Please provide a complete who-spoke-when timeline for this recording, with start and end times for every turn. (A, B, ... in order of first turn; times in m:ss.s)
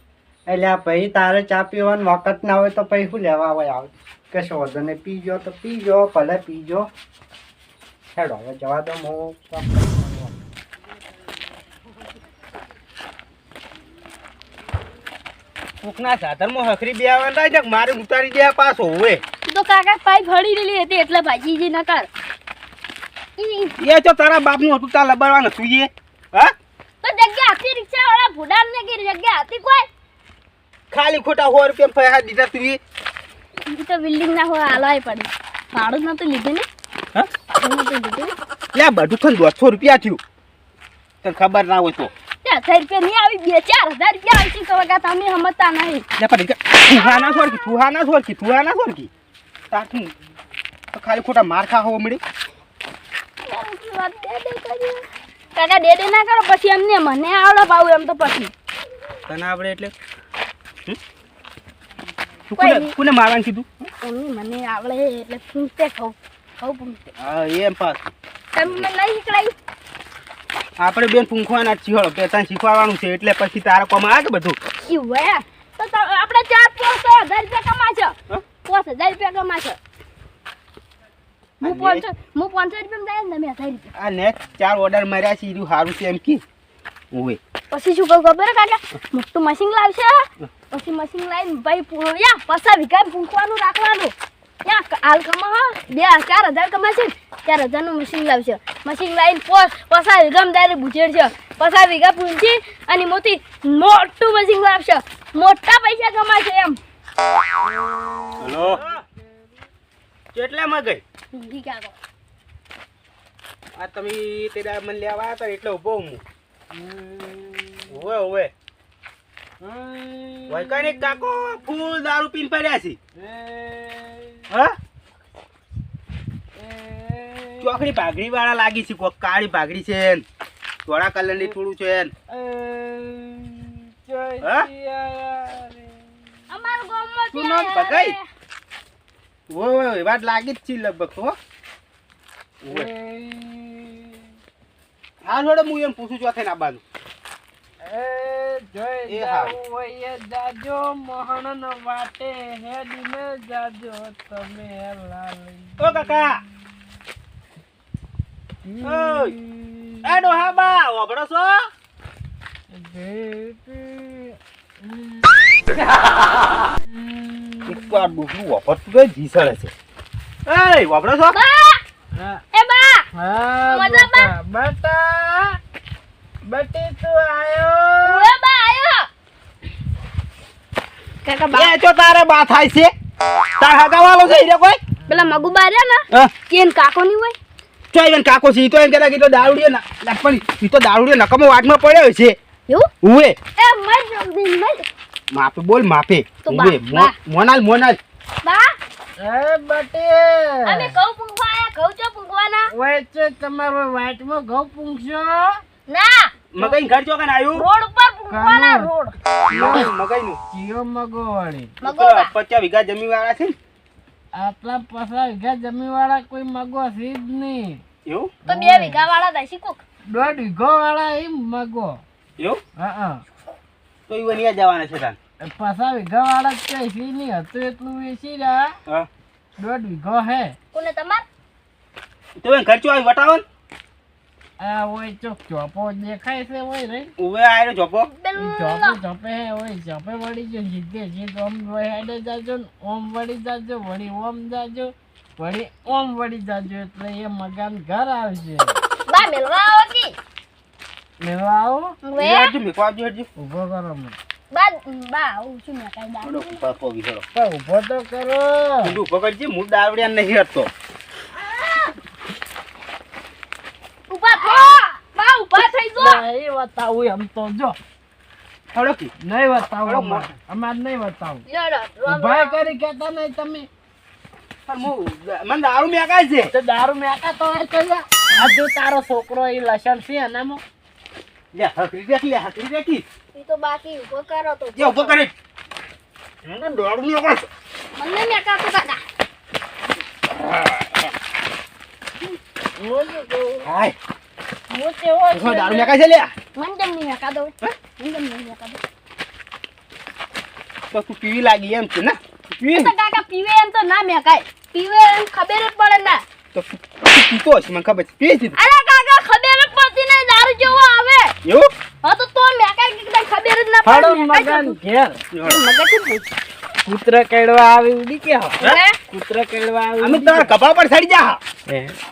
0:00.5-0:06.9 A
0:08.1-0:10.3 A
0:15.8-0:19.2 B
0:19.5-0:22.1 C
0:23.4-0:23.7 C
0:23.8-0:26.5 B
0:27.0-0:29.9 C
0:30.9-0:32.8 B
0:33.7-0:36.7 C
0:37.6-0:38.3 C
0:38.7-0:40.2 B
0:41.2-0:42.1 B
0:42.4-0:46.0 C
0:46.2-0:49.1 B
0:46.9-0:47.8 C
0:49.7-0:50.1 B
0:50.9-0:52.2 B
0:53.4-0:55.0 C
0:55.6-0:58.5 C
0:59.3-0:59.9 B
1:02.5-1:03.9 B
1:02.6-1:02.9 C
1:04.0-1:07.1 C
1:07.2-1:08.9 B
1:08.5-1:09.5 C
1:10.8-1:14.6 B
1:14.9-1:19.8 C
1:21.6-1:22.1 B
1:21.6-1:23.9 C
1:23.9-1:26.4 B
1:27.1-1:27.4 B
1:27.7-1:34.1 C
1:34.6-1:46.8 C
1:47.6-1:49.0 D
1:48.4-1:48.9 B
1:50.3-1:51.0 B
1:51.3-1:52.0 C
1:53.7-1:56.2 B
1:56.7-1:57.9 D
1:57.9-1:58.5 B
1:59.6-2:01.5 D
2:00.5-2:03.0 B
2:03.2-2:04.4 D
2:04.5-2:04.8 B
2:06.5-2:08.0 D
2:07.6-2:10.2 B
2:10.8-2:12.1 B
2:12.3-2:16.3 D
2:14.4-2:14.7 B
2:16.5-2:18.2 C
2:17.3-2:18.2 B
2:19.5-2:21.4 B
2:22.6-2:22.9 B
2:22.7-2:24.3 D
2:25.2-2:26.8 B
2:27.8-2:36.3 D
2:29.1-2:29.6 B
2:35.8-2:36.4 B
2:38.6-2:40.2 D
2:38.8-2:39.4 B
2:40.0-2:41.7 B
2:42.7-2:45.3 D
2:46.9-2:48.1 D
2:47.6-2:49.7 B
2:50.4-2:51.4 B
2:51.3-2:51.8 C
2:52.1-2:52.4 D
2:52.5-2:53.0 C
2:53.1-2:55.6 D
2:53.6-2:54.3 C
2:56.4-2:58.3 D
2:58.0-2:59.1 C
3:01.2-3:01.7 C
3:01.5-3:02.9 B
3:03.6-3:04.8 B
3:05.1-3:07.4 C
3:07.9-3:12.4 B
3:13.0-3:13.4 B
3:13.6-3:14.8 C
3:15.3-3:18.0 B
3:16.4-3:17.2 C
3:18.4-3:18.8 C
3:19.2-3:20.9 D
3:20.6-3:22.7 C
3:22.7-3:25.6 D
3:25.9-3:26.8 C
3:26.5-3:27.6 B
3:27.5-3:29.2 C
3:28.3-3:28.9 D
3:29.5-3:30.4 B
3:29.5-3:29.9 D
3:30.5-3:31.8 D
3:31.8-3:32.3 C
3:31.8-3:33.6 B
3:34.3-3:37.8 D
3:38.0-3:38.3 B
3:38.4-3:39.0 D
3:38.4-3:39.8 C
3:40.1-3:42.0 D
3:42.8-3:43.2 D
3:44.1-3:45.2 B
3:45.4-3:48.8 D
3:49.6-3:50.6 D
3:50.7-3:51.2 C
3:52.4-3:53.4 B
3:54.6-3:57.1 D
3:57.2-3:58.1 B
3:58.1-3:59.0 C
3:58.3-4:08.8 D
4:09.1-4:10.2 C
4:11.2-4:12.0 D
4:12.0-4:12.5 C
4:12.2-4:13.3 B
4:13.4-4:14.2 D
4:14.5-4:16.6 C
4:16.2-4:17.2 B
4:17.3-4:19.0 D
4:18.8-4:20.7 B
4:21.4-4:21.9 C
4:24.1-4:26.2 C
4:26.0-4:27.8 D
4:28.7-4:29.1 B
4:29.2-4:31.4 D
4:29.8-4:30.3 B
4:31.5-4:32.6 C
4:32.0-4:33.7 D
4:34.7-4:36.5 B
4:36.5-4:40.6 D
4:41.5-4:43.0 B
4:43.3-4:45.2 C
4:44.8-4:45.3 B
4:46.4-4:47.5 B
4:48.0-4:49.0 C
4:52.8-4:53.6 D
4:53.6-4:53.9 B
4:54.7-4:55.6 D
4:55.3-4:56.3 B
4:55.4-4:55.9 C
4:56.5-4:58.8 C
5:00.9-5:02.9 B
5:02.6-5:06.2 C
5:06.5-5:08.6 B
5:08.6-5:11.3 C
5:11.4-5:11.7 B
5:12.0-5:14.8 C
5:13.8-5:15.2 D
5:15.3-5:15.6 B
5:15.4-5:16.2 C
5:16.8-5:20.5 D
5:18.6-5:19.0 C
5:20.0-5:21.4 B
5:21.7-5:22.0 D